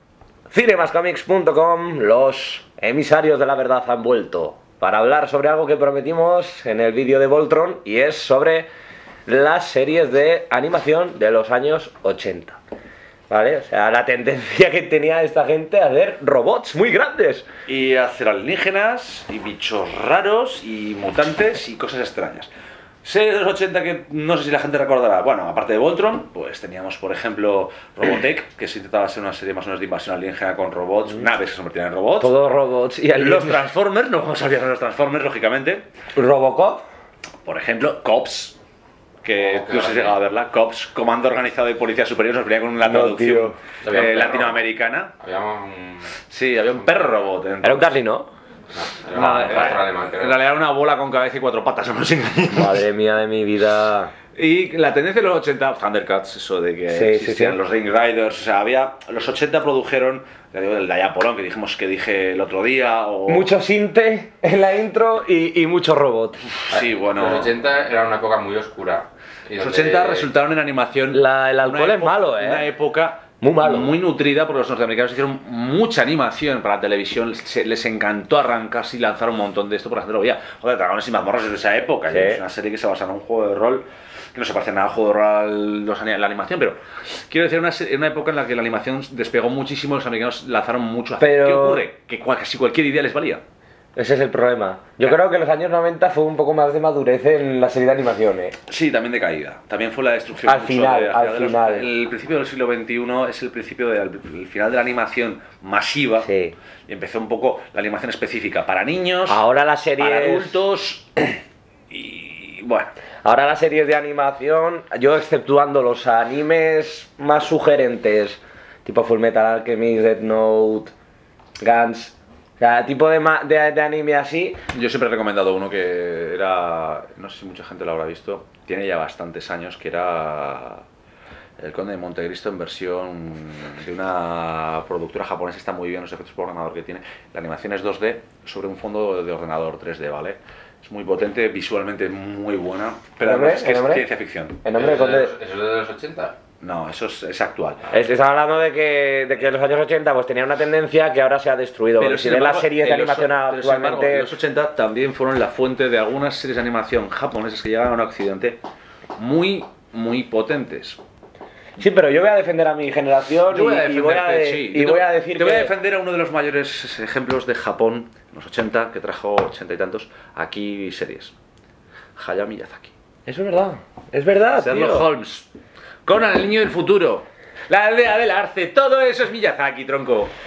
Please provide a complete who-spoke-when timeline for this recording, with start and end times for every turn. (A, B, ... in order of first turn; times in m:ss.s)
0:00.5-0:08.7 A
0:09.3-0:12.6 A
0:13.3-0:17.5 A
0:17.7-0:22.5 B
0:23.0-0:32.3 B
0:32.2-0:33.6 A
0:33.1-0:35.8 B
0:36.2-0:36.8 A
0:37.4-0:38.6 B
0:39.2-0:45.2 B
0:39.3-0:40.2 C
0:42.8-0:43.6 A
0:43.8-0:44.6 C
0:45.2-0:46.2 C
0:46.3-0:47.8 B
0:47.6-0:48.3 A
0:48.7-0:50.4 C
0:49.1-0:52.8 B
0:52.5-0:54.1 A
0:54.3-1:03.5 B
0:56.9-0:57.6 A
1:03.3-1:06.5 A
1:06.7-1:07.5 B
1:06.7-1:10.3 C
1:09.6-1:33.4 B
1:11.1-1:12.7 A
1:13.4-1:13.9 A
1:22.1-1:22.4 A
1:31.2-1:31.8 A
1:34.0-1:38.6 A
1:38.7-1:46.3 B
1:40.4-1:41.9 A
1:46.2-1:46.6 A
1:46.9-1:49.4 B
1:49.3-1:50.6 A
1:50.0-1:52.9 B
1:53.2-2:00.9 A
2:01.6-2:04.6 A
2:04.7-2:10.8 B
2:11.6-2:24.6 B
2:23.2-2:24.0 A
2:24.6-2:25.3 A
2:24.7-2:26.4 C
2:26.6-2:27.8 B
2:27.9-2:34.3 A
2:32.0-2:38.6 B
2:39.2-2:41.0 B
2:41.8-2:45.7 A
2:43.5-2:51.3 B
2:52.2-2:52.9 B
2:53.2-2:55.1 A
2:54.5-2:55.5 B
2:56.0-3:00.3 B